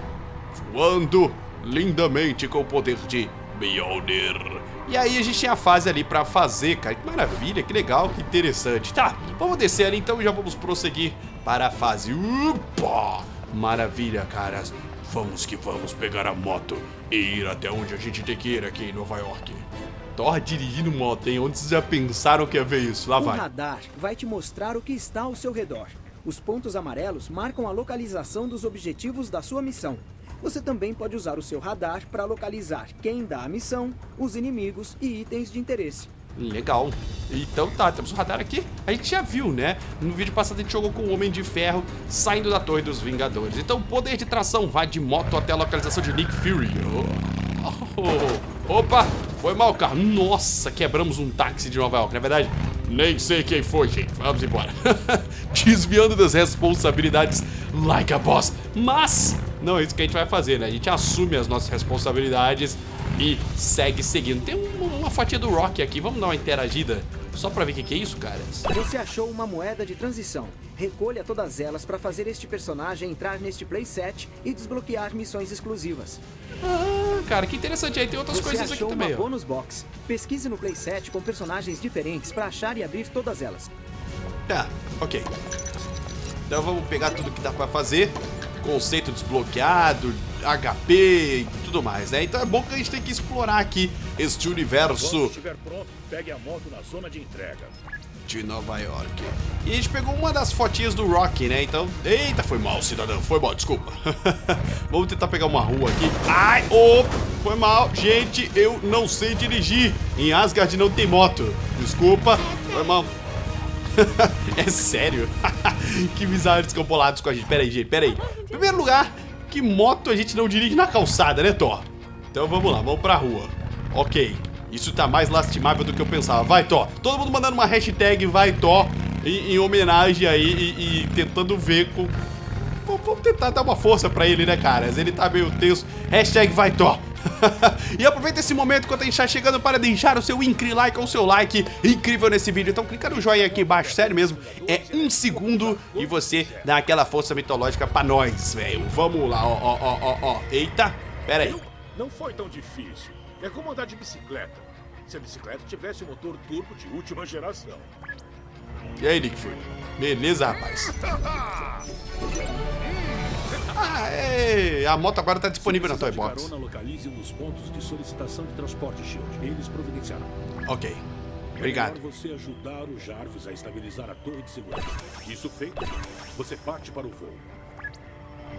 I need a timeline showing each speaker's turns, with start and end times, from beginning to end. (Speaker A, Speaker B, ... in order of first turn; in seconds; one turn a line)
Speaker A: 0.5-23.4
Speaker B: 23.2-36.1
Speaker A: 36.4-68.7
Speaker B: 68.7-76.2
Speaker A: 76.6-79.3
Speaker B: 78.3-83.7
Speaker A: 84.5-85.3
Speaker A: 86.5-95.4
Speaker C: 94.9-97.8
Speaker A: 98.3-113.1
Speaker A: 114.0-132.2
Speaker A: 132.8-151.6
Speaker C: 143.0-146.7
Speaker C: 151.4-157.9
Speaker A: 159.0-160.9
Speaker C: 161.2-161.8
Speaker A: 163.7-166.5
Speaker C: 165.6-170.3
Speaker A: 170.7-171.0
Speaker C: 171.6-177.4
Speaker A: 171.6-172.0